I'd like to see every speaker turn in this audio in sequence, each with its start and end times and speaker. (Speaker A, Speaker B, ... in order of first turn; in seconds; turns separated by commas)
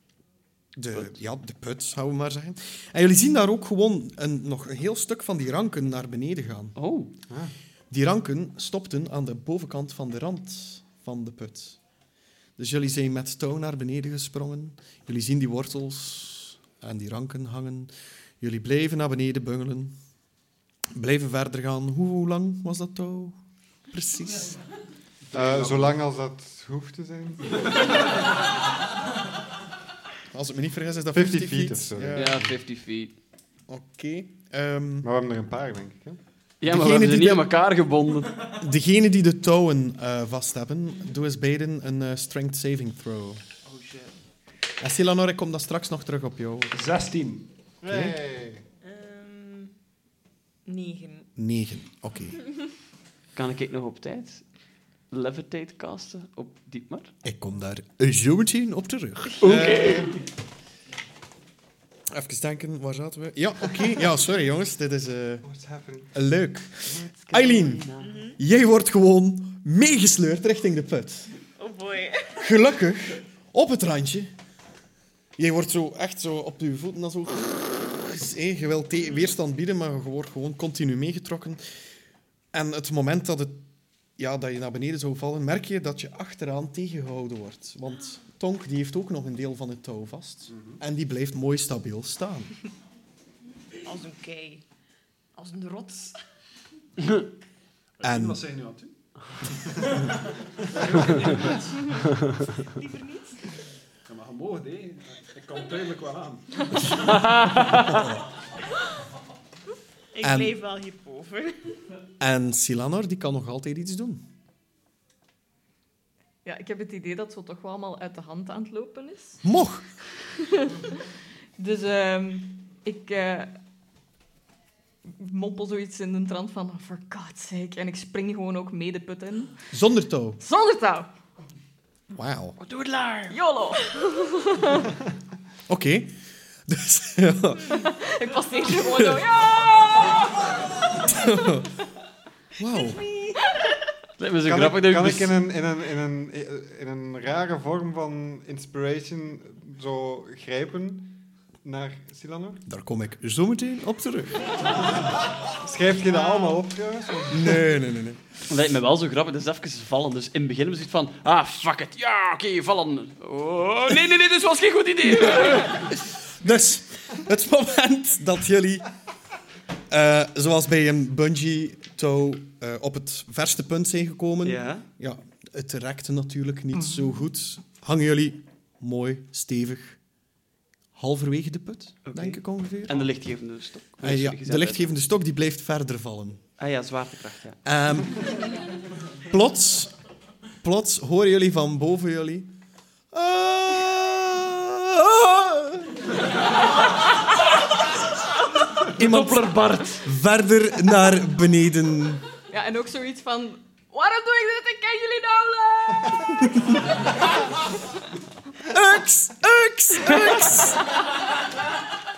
Speaker A: 0.8-6.8, Speaker B: 6.8-7.1, Speaker A: 7.9-11.8, Speaker A: 12.6-19.9, Speaker A: 20.9-23.4, Speaker A: 23.9-24.6, Speaker C: 25.3-25.9, Speaker D: 25.3-28.0, Speaker A: 30.3-32.5, Speaker D: 31.1-32.4, Speaker B: 32.1-33.1, Speaker A: 33.7-35.1, Speaker D: 35.0-36.2, Speaker B: 36.6-38.5, Speaker A: 36.6-37.5, Speaker A: 38.5-43.4, Speaker A: 44.8-46.7, Speaker C: 46.7-47.5, Speaker D: 47.8-48.6, Speaker A: 47.9-48.2, Speaker E: 48.8-49.8, Speaker E: 50.7-51.3, Speaker A: 51.4-52.4, Speaker B: 53.4-54.4, Speaker B: 55.1-57.1, Speaker A: 57.2-60.1, Speaker B: 59.4-60.2, Speaker A: 62.1-65.5, Speaker D: 65.4-66.1, Speaker A: 66.1-71.3, Speaker B: 67.2-68.1, Speaker E: 68.0-68.4, Speaker E: 71.6-72.4, Speaker A: 72.4-74.3, Speaker A: 75.4-81.6, Speaker A: 82.5-83.7, Speaker A: 84.2-92.6, Speaker C: 90.5-90.8, Speaker E: 93.8-94.7, Speaker E: 95.4-96.2, Speaker C: 98.0-98.9, Speaker A: 98.0-98.4, Speaker C: 100.9-101.6, Speaker E: 102.6-103.5, Speaker C: 104.1-107.1, Speaker B: 107.0-108.0, Speaker A: 107.7-108.3, Speaker E: 110.1-111.7, Speaker A: 110.2-110.6, Speaker A: 112.2-114.2, Speaker F: 116.5-119.4, Speaker A: 119.4-119.8, Speaker F: 120.4-121.0, Speaker F: 121.6-123.6, Speaker F: 125.1-129.7, Speaker A: 129.7-130.4, Speaker F: 130.4-131.1, Speaker A: 132.1-132.6, Speaker B: 132.6-133.4, Speaker F: 133.3-134.9, Speaker A: 135.7-137.9, Speaker F: 137.8-140.3, Speaker A: 138.7-139.2, Speaker A: 141.1-141.7, Speaker A: 142.6-143.0, Speaker E: 143.0-143.3, Speaker B: 144.2-145.4, Speaker D: 144.5-152.6, Speaker A: 152.7-154.5, Speaker D: 155.6-157.6, Speaker A: 157.3-158.2, Speaker B: 158.5-165.9, Speaker A: 165.7-168.9, Speaker A: 169.9-180.0, Speaker B: 174.4-174.9, Speaker A: 180.9-183.1, Speaker B: 182.1-184.9, Speaker A: 184.0-186.4, Speaker B: 186.6-187.6, Speaker A: 187.7-188.5, Speaker A: 189.3-189.9, Speaker A: 190.6-192.5, Speaker A: 193.1-196.0, Speaker B: 198.9-200.1, Speaker A: 198.9-202.2, Speaker F: 202.5-206.4, Speaker A: 208.7-210.8, Speaker B: 210.1-210.4